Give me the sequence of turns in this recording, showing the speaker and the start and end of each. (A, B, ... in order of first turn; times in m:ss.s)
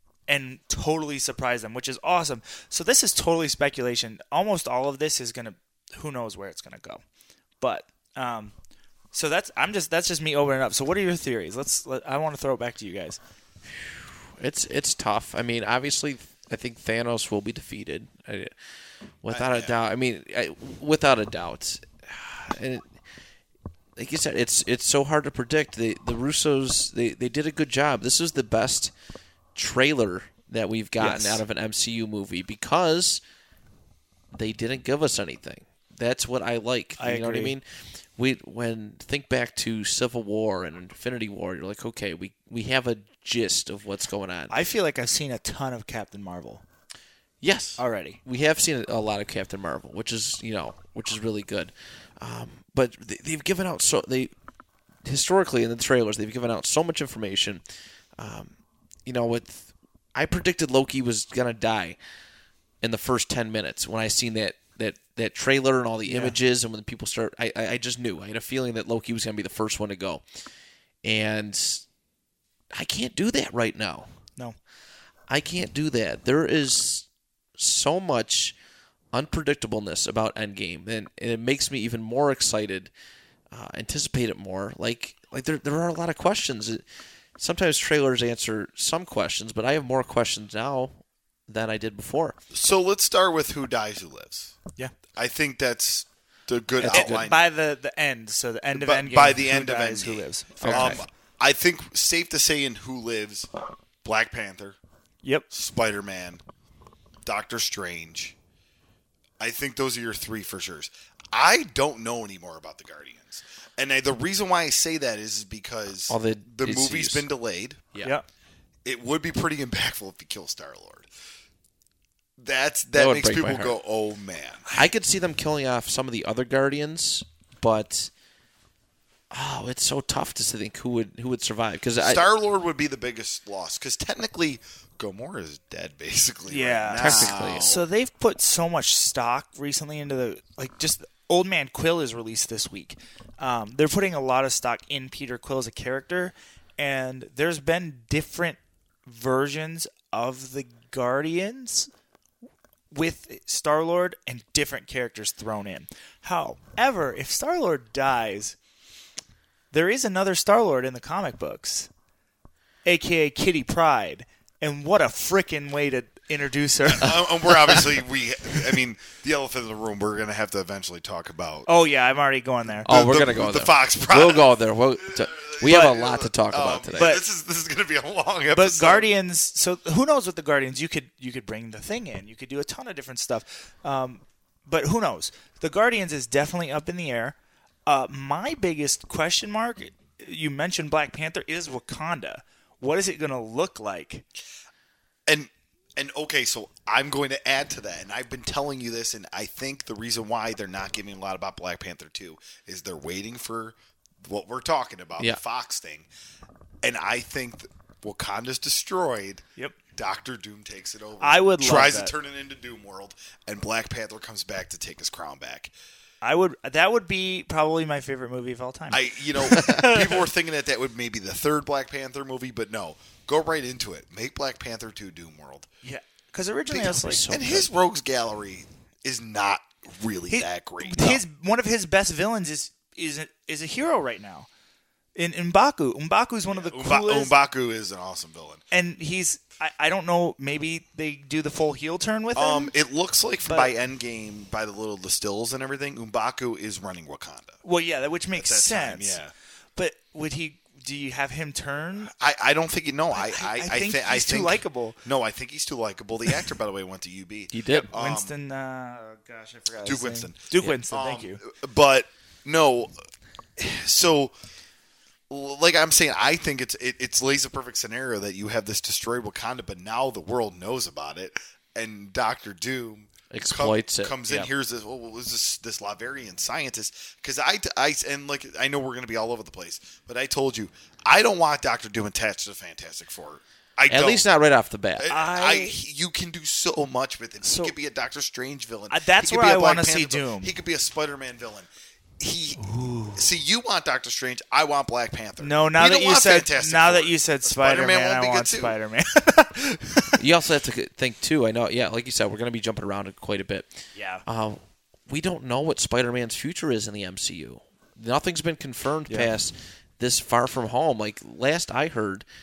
0:00.3-0:07.0 A
0:07.6-0:08.5 A
0:09.1-0:13.2 A
0:13.8-0:18.5 B
0:19.2-0:22.9 B
0:19.3-0:19.8 C
0:24.0-0:28.9 B
0:29.5-0:33.2 B
0:31.0-0:31.4 A
0:34.3-0:37.6 B
0:37.0-0:37.6 A
0:38.2-0:44.5 B
0:44.5-0:46.6 A
0:47.4-0:54.3 B
0:47.8-0:48.2 A
0:55.0-0:57.6 B
0:58.2-0:58.5 B
0:59.0-1:02.0 B
1:02.8-1:10.2 B
1:06.0-1:06.4 A
1:11.0-1:11.8 B
1:12.7-1:14.1 B
1:15.3-1:18.5 B
1:19.1-1:22.9 B
1:23.5-1:26.8 B
1:27.4-1:32.4 B
1:32.5-1:34.6 C
1:35.1-1:37.4 C
1:36.8-1:37.3 B
1:36.9-1:41.0 A
1:38.7-1:43.5 C
1:40.6-1:41.0 B
1:44.0-1:44.8 C
1:45.5-1:46.4 C
1:47.2-1:48.4 C
1:49.4-1:57.8 C
1:56.1-1:57.2 B
1:58.8-2:01.1 C
2:02.4-2:04.8 C
2:02.9-2:03.7 B
2:04.7-2:08.1 B
2:09.3-2:12.2 B
2:12.0-2:17.8 C
2:16.5-2:31.9 A
2:17.0-2:17.7 B
2:32.9-2:38.6 A
2:39.7-2:41.9 A
2:42.8-2:47.9 A
2:46.9-2:51.7 C
2:51.6-2:52.9 A
2:52.8-2:57.1 B
2:52.8-2:59.0 C
2:55.6-2:56.0 A
2:57.0-2:57.2 A
2:58.5-3:07.4 A
3:07.9-3:14.2 A
3:15.3-3:26.1 C
3:26.8-3:35.7 C
3:31.2-3:32.1 A
3:36.2-3:40.2 A
3:38.9-3:45.7 C
3:45.8-3:47.2 A
3:46.7-3:51.2 C
3:46.8-3:47.7 B
3:50.3-3:54.5 A
3:55.2-3:57.3 A
3:56.5-3:58.6 C
3:58.7-4:02.7 A
4:02.4-4:07.6 C
4:03.4-4:03.7 A
4:07.6-4:09.2 A
4:08.3-4:09.3 C
4:09.8-4:12.1 A
4:12.1-4:18.3 C
4:13.1-4:15.0 A
4:17.5-4:17.9 B
4:17.7-4:21.4 A
4:19.8-4:22.9 C
4:23.6-4:24.3 C
4:25.3-4:44.2 C
4:33.3-4:34.5 B
4:43.9-4:45.1 B
4:45.0-4:58.7 C
4:45.1-4:45.8 A
4:47.4-4:47.7 A
4:48.9-4:50.5 A
4:52.6-4:53.2 A
4:55.4-5:00.2 A
5:00.2-5:12.2 B
5:03.9-5:04.2 A